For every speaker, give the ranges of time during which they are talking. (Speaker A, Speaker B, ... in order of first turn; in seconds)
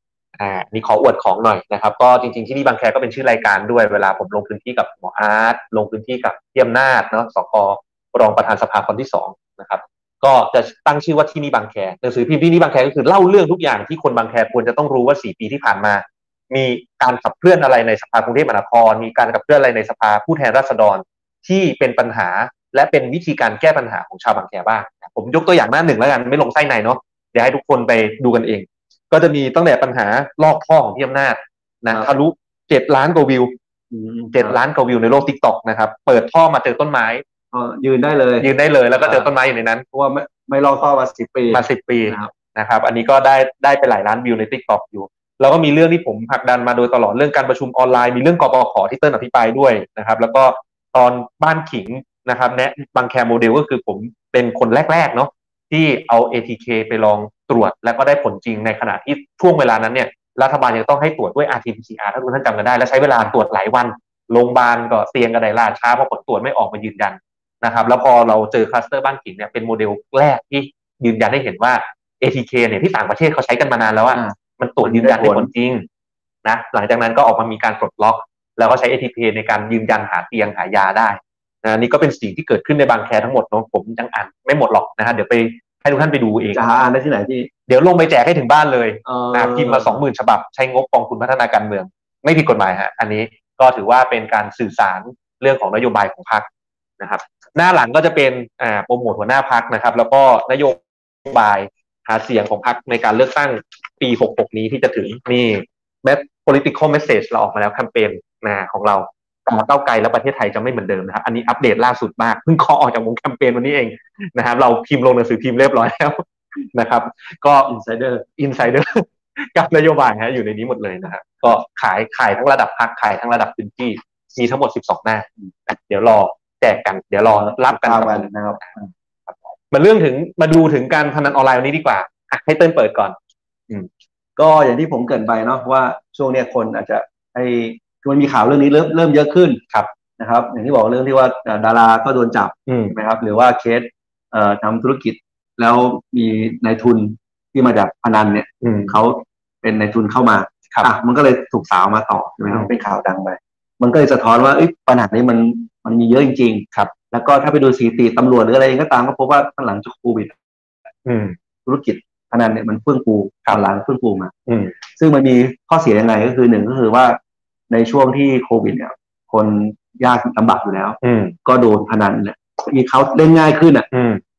Speaker A: 0.4-33.5, 34.3-37.2, 38.4-39.9, 41.5-75.9, 76.4-86.6, 87.7-96.5, 97.0-117.7, 118.4-128.7, 129.3-133.2, 142.7-142.9, 148.6-149.0, 161.1-161.4, 164.5-164.8, 171.0-171.4, 173.9-174.2
Speaker B: 33.9-34.6, 37.5-39.3, 39.9-42.3, 74.1-75.5, 86.5-87.5, 89.0-90.0, 117.7-118.3, 127.3-128.9, 134.4-139.6, 140.2-160.3, 161.7-164.3, 164.9-167.2, 167.7-173.9